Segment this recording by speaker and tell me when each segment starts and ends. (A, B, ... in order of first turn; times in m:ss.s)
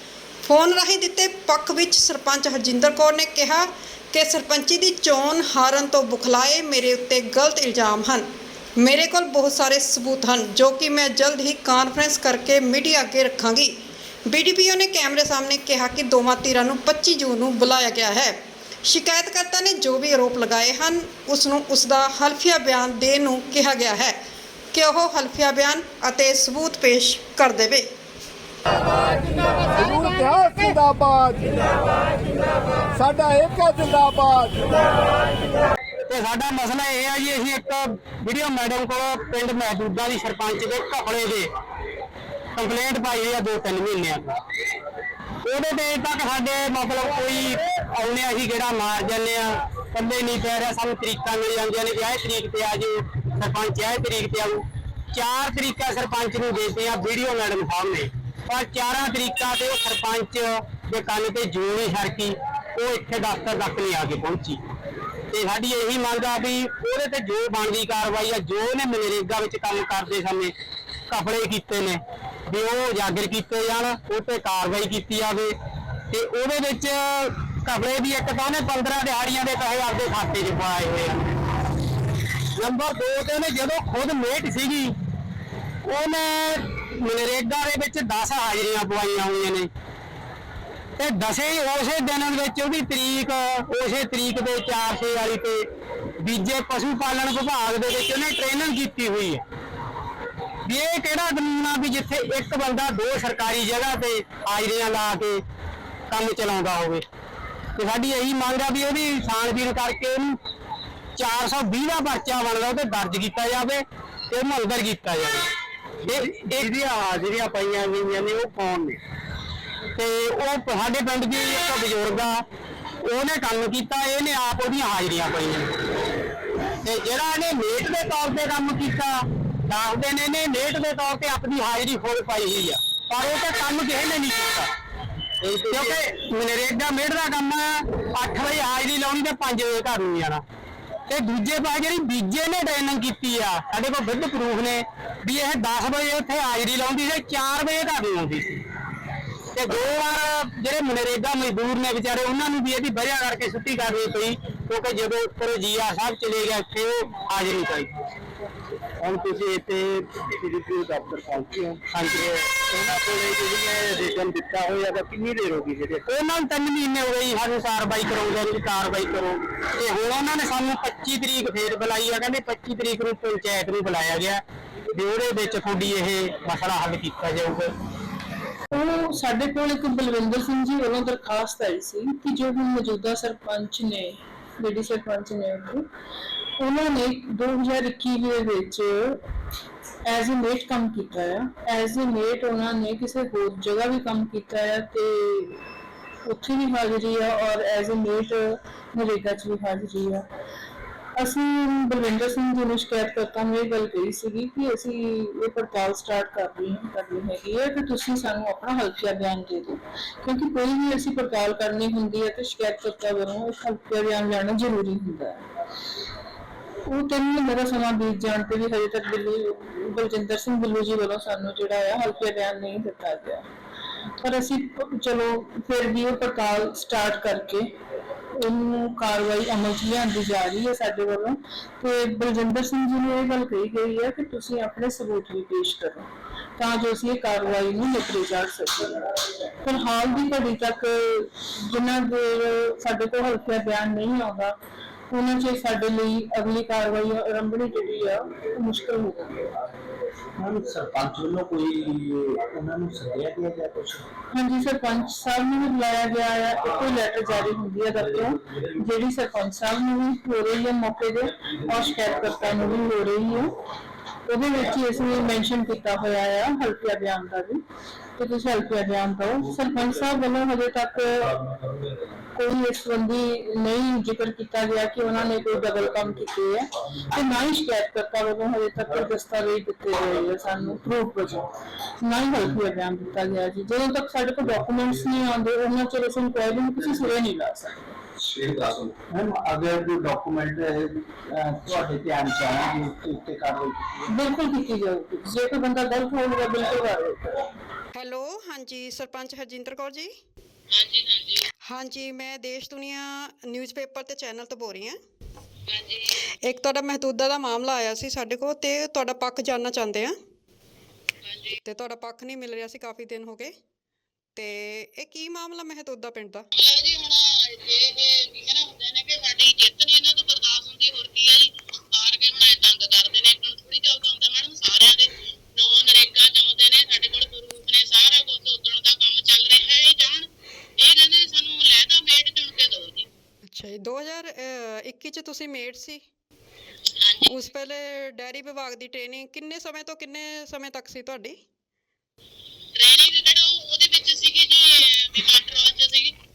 0:00.4-0:24.2 A
0:24.7-0:27.9 A
0:29.7-0:31.8 B
0:32.9-0:34.7 B
0:36.1-0:41.5 C
0:42.6-0:44.3 C
0:45.4-0:54.6 C
0:55.1-1:04.6 C
1:05.3-1:10.5 C
1:11.1-1:15.5 C
1:16.1-1:21.2 C
1:22.6-1:24.9 C
1:25.8-1:29.7 C
1:31.0-1:35.6 C
1:36.2-1:39.4 C
1:40.6-1:45.4 C
1:46.1-1:47.0 C
1:47.8-1:50.4 C
1:51.2-1:55.4 C
1:56.0-1:59.0 C
2:00.0-2:02.4 C
2:03.0-2:05.7 C
2:06.8-2:09.1 C
2:09.7-2:14.7 C
2:15.4-2:20.4 C
2:21.1-2:28.6 C
2:29.5-2:37.9 C
2:39.0-2:57.7 C
2:58.7-3:05.8 D
3:06.6-3:09.2 D
3:10.1-3:15.6 D
3:16.3-3:20.2 D
3:21.2-3:35.4 D
3:36.9-3:43.5 D
3:44.2-3:47.7 D
3:48.4-3:56.1 D
3:56.6-3:59.0 D
3:59.6-4:04.5 D
4:05.1-4:09.5 D
4:10.4-4:14.1 E
4:14.3-4:23.5 D
4:24.3-4:27.6 D
4:28.2-4:31.4 D
4:32.4-4:41.4 D
4:42.0-4:48.0 D
4:48.5-4:54.0 E
4:54.1-4:57.2 D
4:57.9-5:00.1 A
5:00.7-5:01.5 F
5:01.7-5:05.0 A
5:05.7-5:06.2 F
5:06.4-5:10.1 A
5:11.2-5:11.6 F
5:11.6-5:13.5 A
5:14.4-5:16.5 A
5:16.6-5:33.1 F
5:33.5-5:36.0 A
5:37.0-5:37.4 F
5:37.3-5:41.4 A
5:42.8-5:46.1 F